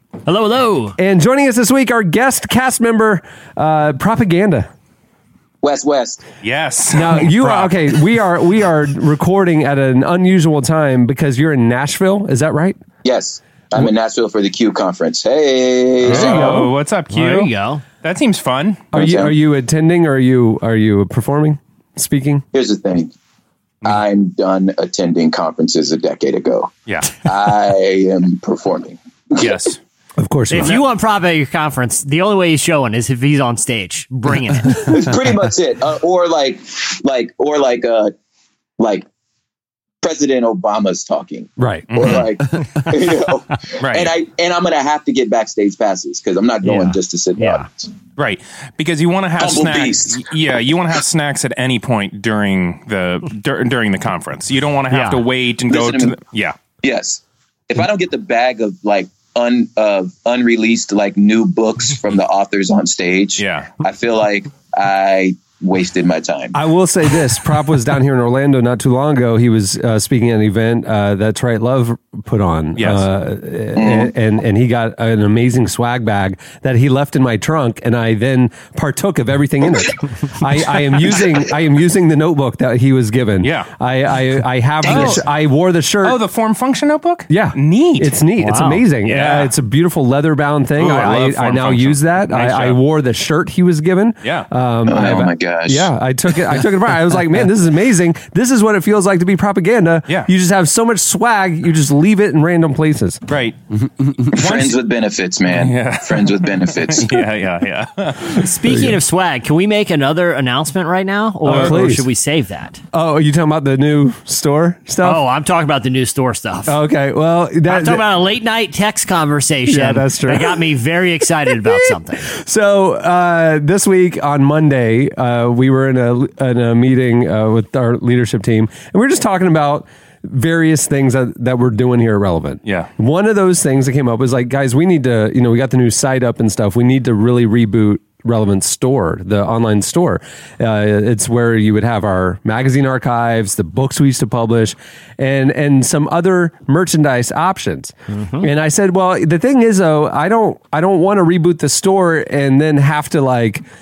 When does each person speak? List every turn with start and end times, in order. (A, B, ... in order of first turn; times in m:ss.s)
0:00.2-0:01.0 A
0:01.0-0:04.7 B
0:05.6-0:06.2 C
0:06.4-0:07.7 D
0:06.9-0:12.8 B
0:13.0-0:16.7 C
0:16.0-0:16.7 B
0:16.0-0:17.5 D
0:17.1-0:17.8 A
0:18.0-0:18.9 D
0:18.9-0:19.3 C
0:18.9-0:22.4 B
0:22.5-0:23.1 C
0:23.8-0:29.5 C
0:29.4-0:29.8 D
0:30.2-0:30.8 B
0:30.5-0:34.9 A
0:34.7-0:38.1 C
0:38.8-0:39.0 C
0:40.0-0:47.9 C
0:41.6-0:42.1 B
0:41.9-0:42.3 D
0:43.8-0:44.1 D
0:46.6-0:47.6 A
0:48.2-0:56.6 D
0:49.4-0:50.2 C
0:54.9-0:55.2 A
0:55.7-0:56.2 C
0:56.8-1:06.6 C
1:03.4-1:03.7 D
1:06.5-1:26.2 B
1:12.8-1:13.0 D
1:13.8-1:14.1 C
1:23.4-1:23.7 D
1:24.8-1:25.2 C
1:24.8-1:25.2 D
1:24.9-1:25.2 A
1:26.0-1:28.2 D
1:27.3-1:43.2 B
1:28.4-1:28.8 A
1:29.0-1:29.5 D
1:30.8-1:32.8 D
1:34.2-1:34.5 D
1:34.8-1:35.9 C
1:43.3-1:43.6 D
1:44.3-1:47.2 C
1:44.4-1:44.7 D
1:45.5-1:48.4 D
1:48.3-1:52.8 A
1:48.6-1:49.0 B
1:51.4-1:52.1 B
1:51.5-1:51.8 D
1:52.9-1:55.2 B
1:55.0-1:56.8 A
1:56.7-1:58.0 B
1:57.7-2:02.3 A
1:59.7-2:00.6 B
2:02.2-2:33.6 B
2:28.1-2:28.5 A